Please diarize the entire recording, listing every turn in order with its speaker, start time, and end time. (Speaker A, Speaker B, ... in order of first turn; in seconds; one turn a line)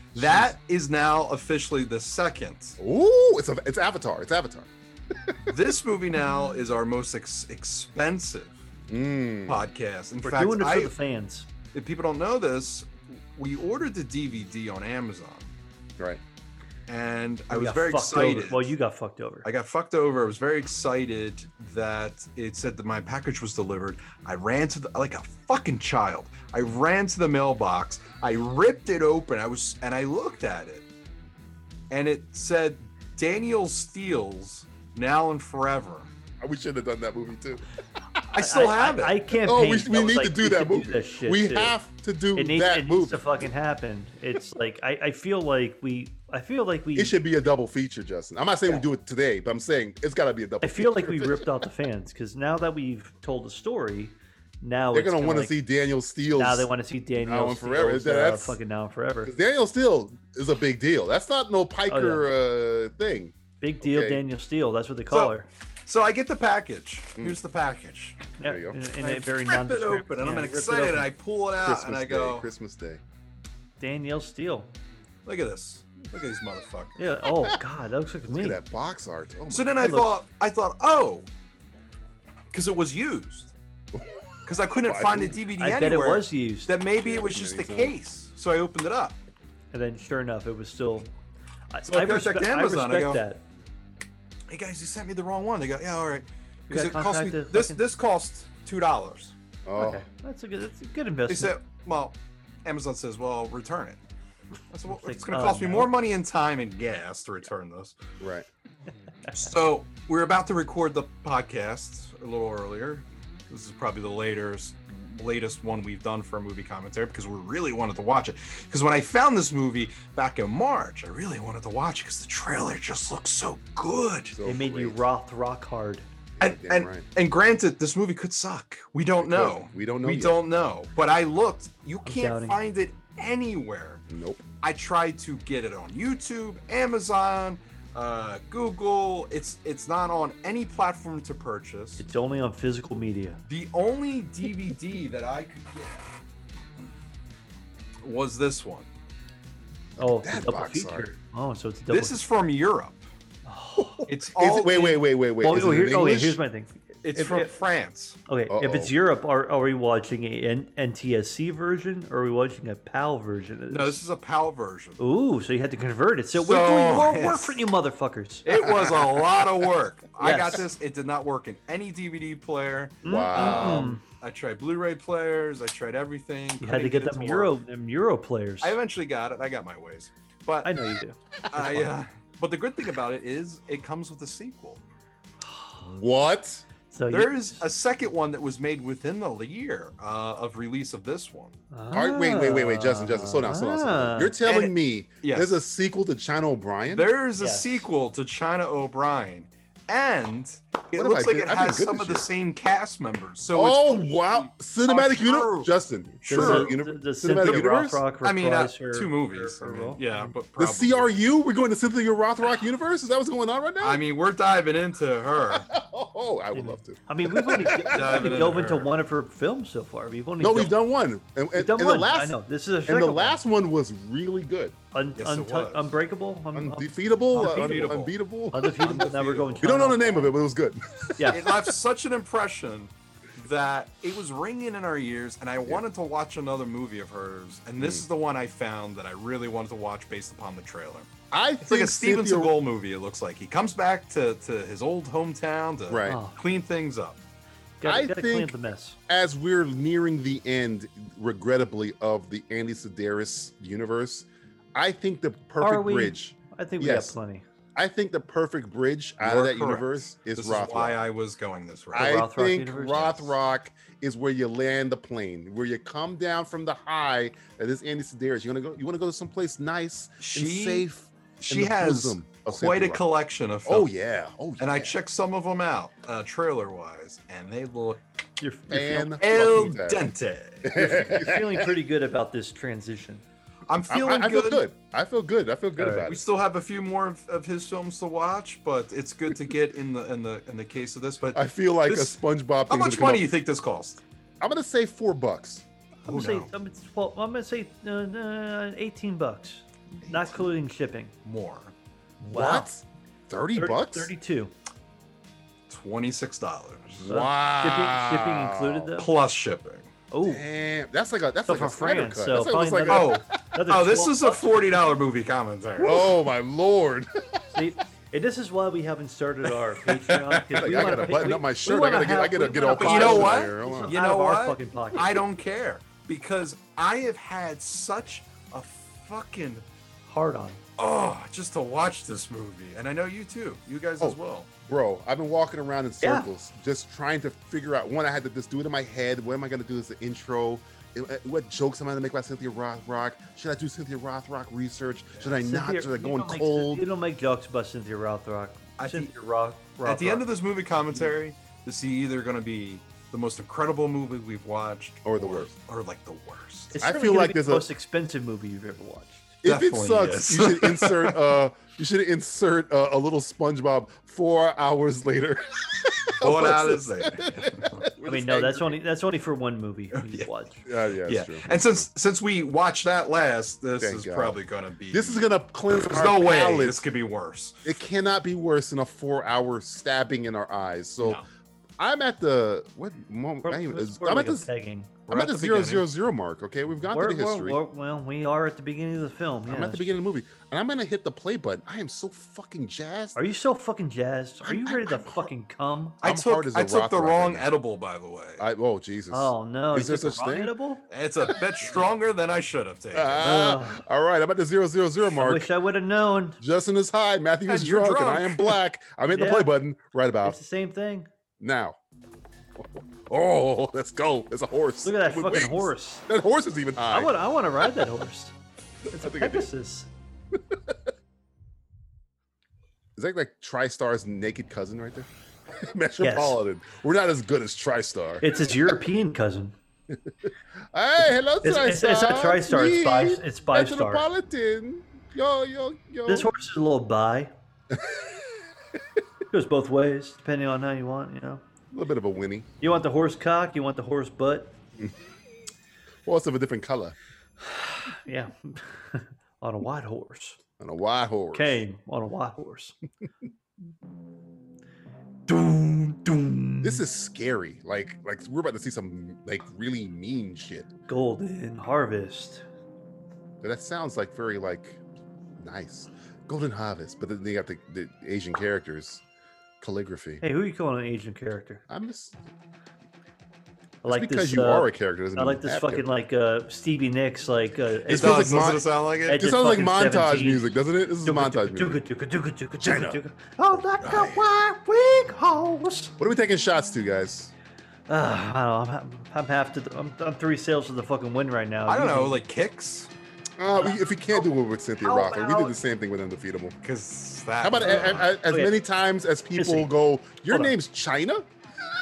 Speaker A: 0.1-2.8
Speaker B: 0.1-0.5
Speaker B: 2.8-4.7
Speaker A: 5.5-8.6
Speaker B: 8.9-9.7
Speaker A: 9.5-10.9
Speaker C: 10.2-11.5
Speaker A: 11.7-15.5
Speaker A: 16.9-18.7
Speaker C: 17.5-19.5
Speaker A: 19.4-30.9
Speaker A: 31.9-36.1
Speaker B: 36.4-37.6
Speaker A: 38.3-39.3
Speaker C: 38.4-41.8
Speaker B: 39.4-43.5
Speaker C: 42.3-47.2
Speaker B: 46.9-51.5
Speaker C: 50.6-55.6
Speaker B: 54.9-58.6
Speaker C: 56.4-59.3
Speaker B: 59.2-64.2
Speaker C: 61.9-62.3
Speaker C: 63.6-65.5
Speaker A: 65.1-65.3
Speaker A: 65.9-68.3
Speaker C: 68.4-71.1
Speaker B: 68.4-68.8
Speaker A: 69.0-72.5
Speaker B: 71.6-73.0
Speaker C: 73.8-74.7
Speaker A: 75.2-77.0
Speaker C: 77.0-78.6
Speaker B: 78.3-80.1
Speaker A: 79.5-81.2
Speaker A: 82.5-83.5
Speaker A: 84.5-89.2
Speaker B: 84.8-85.4
Speaker C: 85.6-86.7
Speaker B: 86.9-88.0
Speaker C: 89.7-91.1
Speaker C: 91.7-93.4
Speaker A: 91.9-93.2
Speaker A: 94.5-99.3
Speaker C: 96.7-97.8
Speaker B: 99.7-100.0
Speaker C: 99.8-101.6
Speaker A: 101.3-104.0
Speaker A: 104.7-108.0
Speaker C: 104.9-105.9
Speaker B: 108.2-108.5
Speaker A: 109.3-124.4
Speaker B: 124.3-125.0
Speaker C: 124.4-126.1
Speaker B: 126.4-127.1
Speaker A: 126.4-134.0
Speaker B: 129.2-130.4
Speaker C: 132.1-132.6
Speaker B: 134.1-134.4
Speaker A: 134.6-142.0
Speaker C: 142.0-143.4
Speaker A: 143.5-146.1
Speaker A: 148.0-148.9
Speaker B: 150.0-151.1
Speaker C: 150.0-152.2
Speaker A: 151.9-153.0
Speaker C: 153.4-154.1
Speaker B: 153.8-156.4
Speaker A: 154.1-155.1
Speaker C: 155.4-157.5
Speaker A: 157.0-158.2
Speaker C: 158.3-164.0
Speaker B: 158.5-158.9
Speaker A: 163.7-165.0
Speaker C: 165.0-168.5
Speaker A: 166.3-167.6
Speaker A: 168.4-177.5
Speaker C: 170.2-170.6
Speaker C: 173.0-174.0
Speaker B: 173.1-173.9
Speaker C: 176.6-178.8
Speaker A: 178.6-180.7
Speaker C: 180.6-181.8
Speaker A: 181.5-184.8
Speaker C: 185.5-185.8
Speaker B: 185.8-186.6
Speaker C: 186.9-187.6
Speaker A: 187.1-191.6
Speaker C: 191.7-194.4
Speaker B: 191.9-197.1
Speaker A: 194.4-195.6
Speaker A: 196.9-206.7
Speaker C: 197.4-197.8
Speaker B: 200.9-202.3
Speaker B: 203.5-208.0
Speaker C: 206.2-210.3
Speaker A: 208.2-211.2
Speaker B: 210.6-214.0
Speaker A: 213.8-215.7
Speaker B: 215.5-218.4
Speaker C: 216.5-220.8
Speaker A: 217.7-218.9
Speaker B: 220.4-224.8
Speaker C: 221.6-223.4
Speaker C: 224.9-228.0
Speaker A: 225.2-225.9
Speaker B: 226.5-229.0
Speaker A: 227.3-228.1
Speaker C: 228.5-230.3
Speaker A: 228.8-229.6
Speaker B: 229.6-231.7
Speaker C: 231.2-231.4
Speaker A: 231.3-247.2
Speaker B: 237.8-238.0
Speaker B: 241.3-242.6
Speaker B: 245.9-246.2
Speaker C: 246.1-246.4
Speaker C: 247.8-249.0
Speaker B: 247.8-248.6
Speaker B: 249.1-257.1
Speaker C: 255.6-257.4
Speaker B: 257.8-261.0
Speaker A: 259.2-262.2
Speaker B: 261.9-273.0
Speaker C: 261.9-263.3
Speaker A: 270.2-270.9
Speaker A: 271.4-273.9
Speaker B: 273.6-274.9
Speaker A: 274.6-278.0
Speaker C: 278.4-279.4
Speaker B: 278.7-280.1
Speaker A: 279.2-281.0
Speaker B: 280.6-281.7
Speaker C: 280.7-283.2
Speaker A: 283.7-284.7
Speaker B: 283.9-286.2
Speaker C: 285.8-286.1
Speaker A: 286.1-294.0
Speaker B: 291.3-293.3
Speaker B: 294.4-295.6
Speaker C: 296.0-301.1
Speaker A: 296.1-296.5
Speaker A: 301.2-301.7
Speaker B: 302.2-304.1
Speaker C: 302.3-302.7
Speaker C: 303.6-304.5
Speaker A: 305.7-307.0
Speaker B: 307.0-308.9
Speaker C: 307.0-309.1
Speaker A: 309.0-309.9
Speaker C: 310.1-310.4
Speaker B: 310.2-313.2
Speaker C: 311.5-314.8
Speaker A: 312.9-316.1
Speaker B: 315.8-317.1
Speaker C: 317.5-325.1
Speaker A: 319.9-321.1
Speaker B: 320.5-323.9
Speaker A: 322.5-329.6
Speaker C: 330.1-330.6
Speaker A: 330.8-334.5
Speaker B: 334.0-346.9
Speaker C: 336.0-336.3
Speaker C: 345.4-350.3
Speaker A: 348.8-349.1
Speaker A: 349.8-356.7
Speaker B: 355.0-355.5
Speaker C: 356.7-359.3
Speaker B: 356.8-357.7
Speaker B: 359.4-368.8
Speaker A: 359.4-361.2
Speaker A: 366.2-367.8
Speaker C: 368.0-370.6
Speaker A: 369.9-370.3
Speaker B: 370.7-371.8
Speaker A: 371.1-375.2
Speaker B: 373.8-374.4
Speaker B: 374.9-376.9
Speaker A: 375.8-377.6
Speaker B: 377.6-381.2
Speaker B: 381.8-384.5
Speaker C: 383.4-384.9
Speaker A: 385.1-385.9
Speaker B: 385.1-387.6
Speaker C: 386.9-389.9
Speaker B: 389.5-393.2
Speaker C: 393.1-396.0
Speaker B: 394.4-395.3
Speaker B: 396.0-397.5
Speaker A: 396.0-398.4
Speaker B: 398.4-400.5
Speaker C: 399.1-400.9
Speaker A: 400.9-403.2
Speaker B: 402.9-405.5
Speaker C: 403.2-403.8
Speaker C: 405.1-406.4
Speaker B: 406.4-410.4
Speaker A: 407.5-408.6
Speaker C: 409.1-409.5
Speaker C: 410.2-411.1
Speaker B: 411.4-411.8
Speaker B: 412.6-417.1
Speaker C: 414.8-416.0
Speaker C: 416.9-418.4
Speaker C: 418.9-419.9
Speaker B: 418.9-419.5
Speaker B: 420.3-420.8
Speaker B: 423.0-428.3
Speaker C: 426.0-426.4
Speaker C: 428.2-429.5
Speaker B: 429.9-436.3
Speaker C: 431.4-434.1
Speaker C: 436.1-437.3
Speaker B: 437.7-438.2
Speaker C: 439.3-441.4
Speaker B: 441.7-442.5
Speaker C: 442.6-444.6
Speaker B: 446.0-447.0
Speaker C: 447.4-450.4
Speaker B: 450.6-451.6
Speaker C: 451.3-452.8
Speaker C: 455.3-456.8
Speaker B: 456.6-460.7
Speaker C: 460.9-462.4
Speaker B: 463.4-464.8
Speaker B: 465.4-469.0
Speaker B: 469.6-470.2
Speaker C: 470.2-471.6
Speaker B: 471.7-472.2
Speaker C: 473.8-478.5
Speaker B: 473.9-475.9
Speaker B: 477.9-481.8
Speaker A: 477.9-479.2
Speaker C: 479.1-480.5
Speaker C: 481.0-486.0
Speaker B: 482.6-483.0
Speaker B: 483.8-484.2
Speaker B: 486.0-487.3
Speaker C: 487.9-492.2
Speaker A: 491.7-492.9
Speaker B: 493.4-496.5
Speaker C: 493.6-494.3
Speaker C: 494.8-495.6
Speaker A: 496.6-498.1
Speaker B: 497.4-501.3
Speaker C: 497.6-498.6
Speaker C: 499.4-499.7
Speaker C: 500.3-500.6